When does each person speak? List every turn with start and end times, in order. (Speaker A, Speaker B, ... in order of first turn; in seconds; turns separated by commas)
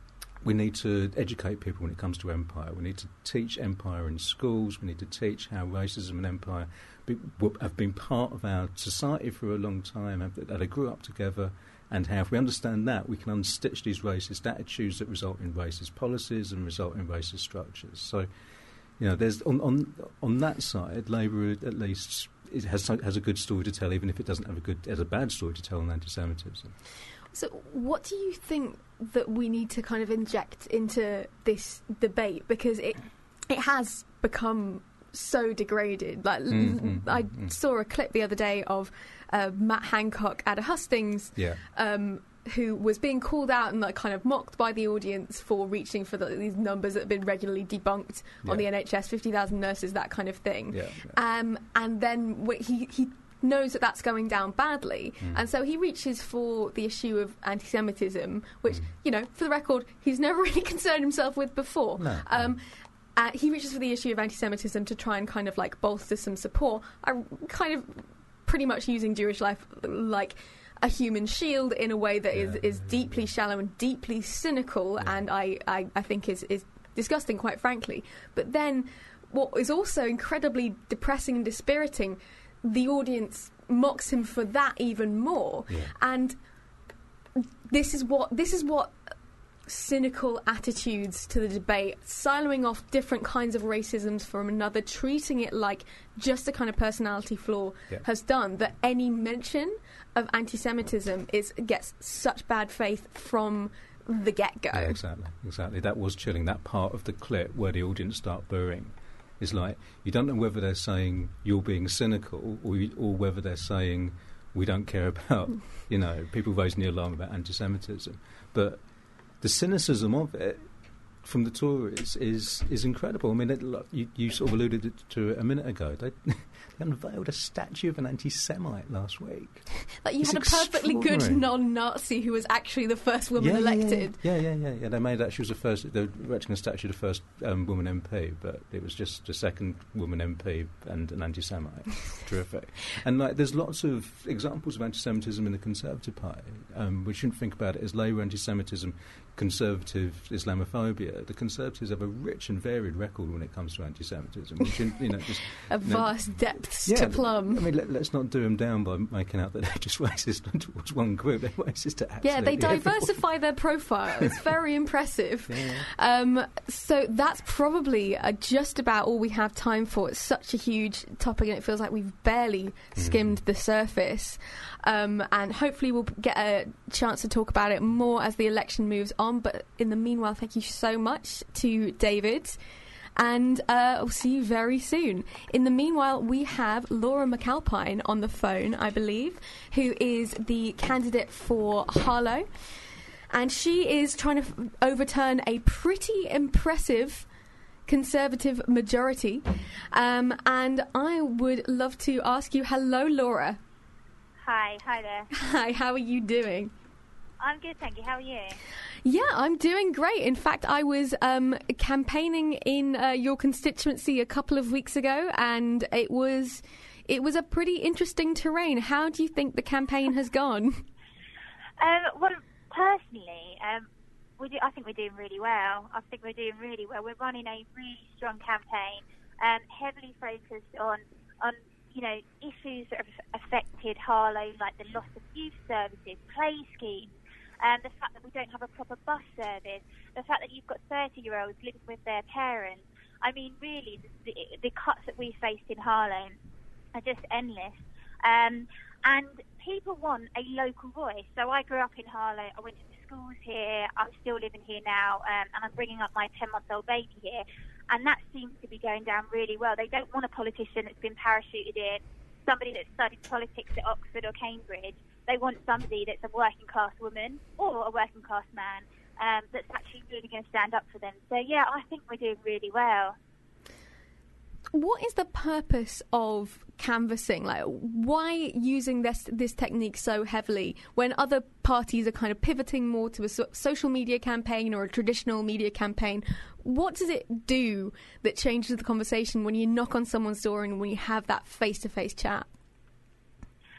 Speaker A: 0.4-18.3, Speaker A: 19.0-26.7, Speaker B: 27.3-62.6, Speaker A: 36.5-37.5, Speaker A: 41.4-41.6, Speaker A: 50.7-51.2, Speaker A: 55.2-55.5, Speaker A: 62.0-62.5, Speaker B: 63.1-86.3, Speaker A: 72.3-73.3, Speaker A: 85.7-85.9, Speaker B: 87.7-89.0, Speaker B: 89.7-105.0, Speaker A: 104.7-118.8, Speaker A: 119.4-129.7, Speaker B: 130.0-134.2, Speaker A: 130.2-131.4, Speaker A: 133.4-163.3, Speaker B: 155.7-157.7, Speaker B: 162.2-182.6, Speaker A: 165.5-165.9, Speaker A: 172.9-173.4, Speaker B: 183.2-192.5, Speaker B: 193.3-197.2, Speaker B: 197.9-203.6, Speaker C: 204.4-205.3, Speaker B: 205.3-206.7, Speaker C: 207.4-208.6, Speaker B: 209.0-220.8, Speaker C: 221.8-223.9, Speaker C: 224.4-246.4, Speaker C: 246.9-273.1, Speaker B: 274.7-292.5